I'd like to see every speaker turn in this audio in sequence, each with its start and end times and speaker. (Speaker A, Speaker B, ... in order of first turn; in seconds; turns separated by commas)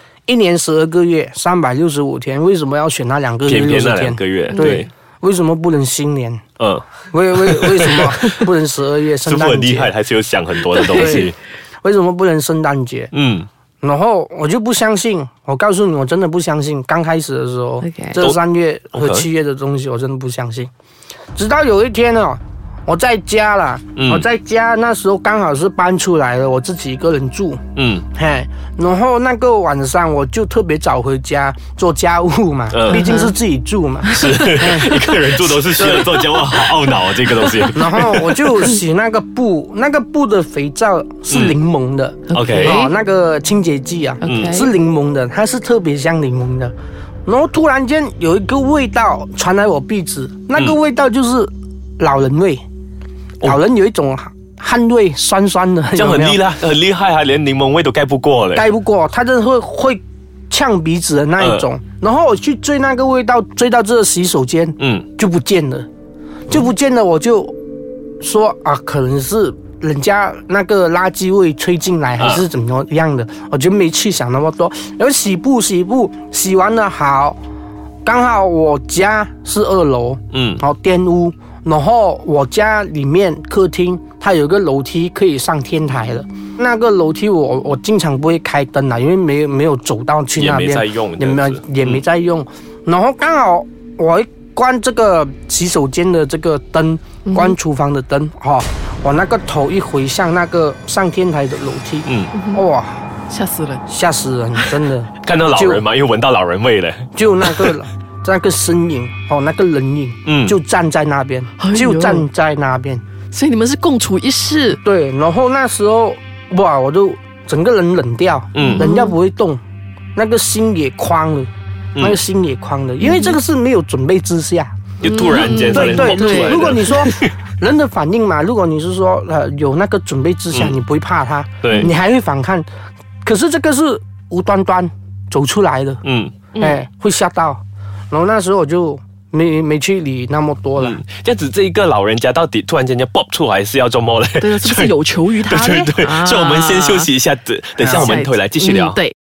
Speaker A: 0.3-6.4, Speaker B: 3.5-4.9, Speaker C: 4.5-4.8, Speaker B: 6.6-8.5, Speaker A: 7.1-9.9, Speaker B: 9.2-11.4, Speaker A: 10.9-13.1, Speaker B: 13.1-13.5, Speaker A: 13.8-20.7, Speaker C: 17.8-18.2, Speaker B: 18.9-19.3, Speaker A: 21.4-34.9, Speaker B: 24.0-24.3, Speaker B: 27.8-28.1, Speaker B: 32.7-33.1, Speaker C: 32.9-33.3, Speaker C: 34.0-35.1, Speaker B: 34.1-38.8, Speaker A: 35.7-36.3, Speaker A: 37.7-46.7, Speaker B: 41.3-41.6, Speaker C: 42.3-42.9, Speaker B: 42.3-42.8, Speaker C: 44.2-44.7, Speaker B: 44.2-44.6, Speaker A: 47.3-52.6, Speaker A: 53.4-56.4, Speaker B: 56.0-58.7, Speaker A: 58.5-65.9, Speaker B: 61.4-61.7, Speaker B: 64.8-65.1, Speaker A: 66.5-67.6, Speaker A: 68.2-77.4, Speaker B: 72.2-72.5, Speaker A: 78.0-103.0, Speaker B: 80.3-80.6, Speaker B: 90.4-92.0, Speaker C: 97.3-97.6, Speaker B: 102.1-102.3, Speaker C: 102.3-102.6, Speaker C: 103.3-103.8, Speaker A: 103.9-105.8, Speaker B: 105.2-107.7, Speaker A: 107.1-113.0, Speaker B: 110.2-110.6, Speaker C: 111.6-112.3, Speaker C: 113.3-114.8, Speaker A: 114.8-119.6, Speaker B: 118.5-118.8, Speaker C: 118.6-119.1, Speaker A: 120.2-124.7, Speaker B: 122.0-122.2, Speaker C: 123.0-123.4, Speaker B: 125.0-127.3, Speaker C: 125.0-127.2, Speaker A: 125.7-132.7, Speaker B: 130.5-130.8, Speaker B: 131.6-131.9, Speaker A: 133.2-136.0, Speaker B: 136.0-136.4, Speaker C: 136.6-136.8, Speaker A: 136.6-141.0, Speaker B: 140.8-149.0, Speaker C: 144.4-147.1, Speaker A: 147.8-148.1, Speaker C: 147.8-149.1